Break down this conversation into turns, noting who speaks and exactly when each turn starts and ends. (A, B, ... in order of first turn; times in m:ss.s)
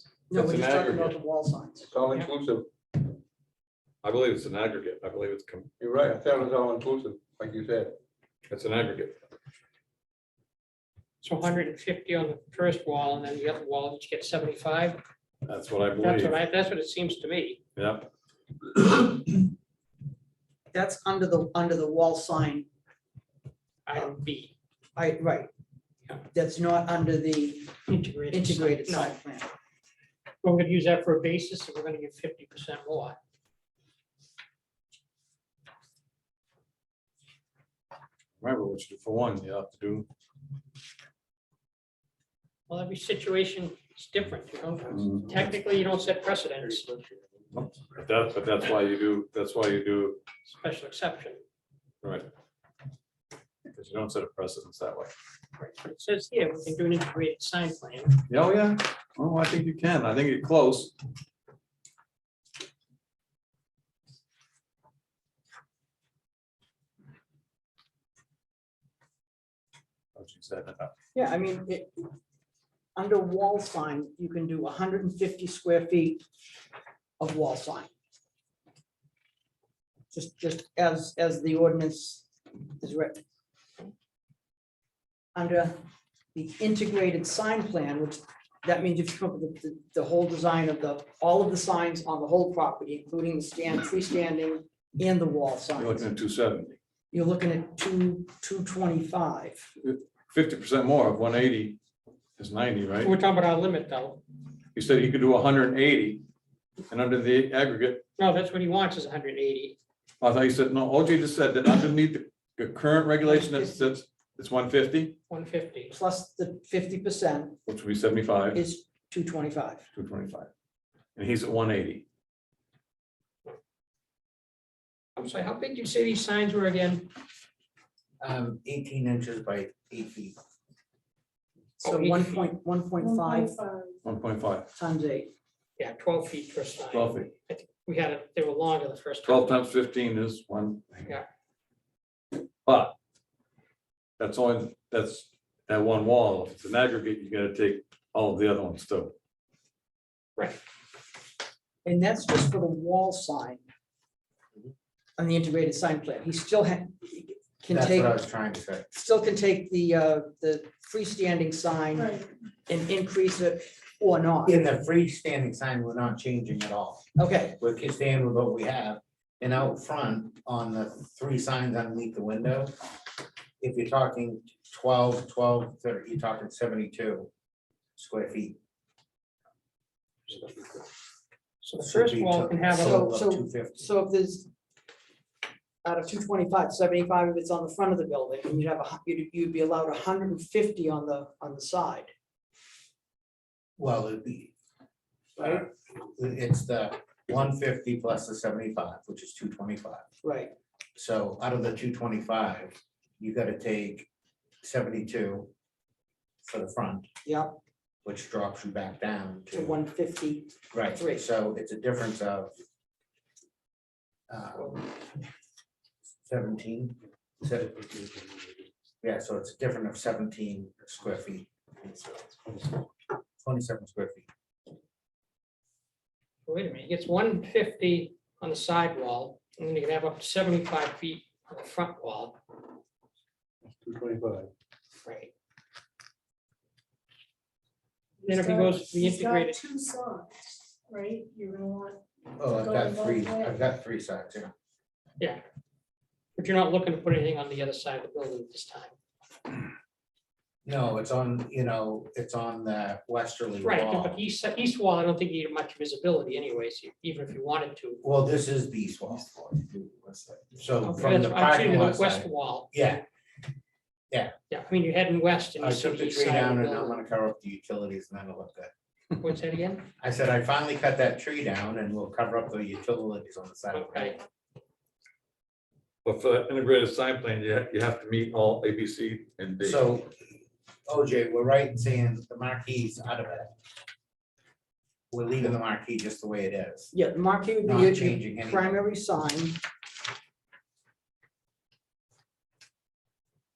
0:00.3-0:01.9 A
0:00.3-0:01.2 B
0:01.9-0:02.7 C
0:04.0-0:05.7 B
0:05.8-0:08.0 C
0:08.5-0:09.2 B
0:11.2-0:15.0 D
0:15.4-0:16.4 B
0:16.0-0:17.6 D
0:17.8-0:18.1 B
0:20.7-0:22.7 A
0:23.9-0:24.6 D
0:25.0-0:25.5 A
0:26.3-0:27.7 A
0:27.9-0:29.2 D
0:28.3-0:29.5 A
0:30.4-0:33.2 D
0:38.4-0:40.1 B
0:42.7-0:46.9 D
0:44.9-0:45.4 B
0:47.5-0:50.2 B
0:50.5-0:51.4 D
0:52.0-0:52.3 B
0:53.7-0:55.1 B
0:55.6-0:58.2 D
0:58.3-1:00.9 B
1:10.2-1:10.9 B
1:11.2-1:12.1 A
1:13.0-1:16.2 A
1:17.2-1:17.9 A
1:20.1-1:22.3 A
1:22.8-1:23.2 A
1:25.4-1:25.8 A
1:26.3-1:36.1 A
1:35.8-1:36.8 B
1:37.1-1:39.7 A
1:39.8-1:41.8 B
1:42.4-1:43.1 B
1:43.0-1:44.2 D
1:44.8-1:46.2 B
1:46.9-1:48.0 B
1:48.2-1:49.8 D
1:50.2-1:55.2 B
1:53.2-1:54.0 A
1:55.3-1:55.9 D
1:55.9-1:57.6 A
1:57.7-1:58.6 B
1:58.5-1:59.9 A
2:00.0-2:00.5 B
2:01.2-2:02.0 B
2:05.2-2:07.1 D
2:08.2-2:10.4 E
2:11.8-2:13.6 A
2:11.8-2:12.5 D
2:13.0-2:13.9 F
2:14.0-2:14.7 B
2:14.8-2:15.3 A
2:15.8-2:19.6 D
2:16.9-2:17.3 B
2:19.2-2:21.0 B
2:22.7-2:23.0 B
2:24.2-2:29.2 B
2:31.8-2:33.6 A
2:35.2-2:38.2 A
2:37.7-2:38.9 E
2:38.9-2:44.6 A
2:44.5-2:47.0 E
2:47.2-2:47.6 A
2:47.6-2:52.7 E
2:53.6-2:57.3 E
2:58.0-2:58.6 E
3:01.6-3:03.0 D
3:01.8-3:03.9 E
3:02.8-3:04.5 A
3:05.8-3:12.1 A
3:13.8-3:14.5 E
3:15.4-3:15.6 A
3:15.4-3:20.0 E
3:20.2-3:20.6 A
3:21.0-3:24.1 E
3:24.6-3:25.5 E
3:26.4-3:27.1 E
3:27.2-3:27.6 A
3:28.0-3:29.8 E
3:29.5-3:31.2 A
3:30.7-3:32.5 E
3:34.3-3:34.9 E
3:36.2-3:38.1 E
3:39.0-3:42.2 E
3:43.4-3:44.3 E
3:46.5-3:52.4 D
3:53.7-3:54.5 C
3:55.0-3:55.3 D
3:58.2-4:03.6 F
3:58.3-3:59.8 D
4:02.4-4:04.5 E
4:06.4-4:09.0 D
4:10.6-4:14.2 E
4:13.6-4:18.0 D
4:18.0-4:19.4 E
4:20.6-4:23.0 E
4:20.8-4:22.7 D
4:24.5-4:27.0 D
4:25.6-4:28.7 E
4:29.2-4:29.9 D
4:30.0-4:34.2 E
4:33.7-4:34.2 D
4:36.0-4:39.8 B
4:39.6-4:43.5 E
4:45.1-4:46.9 E
4:46.9-4:49.6 A
4:47.6-4:48.8 E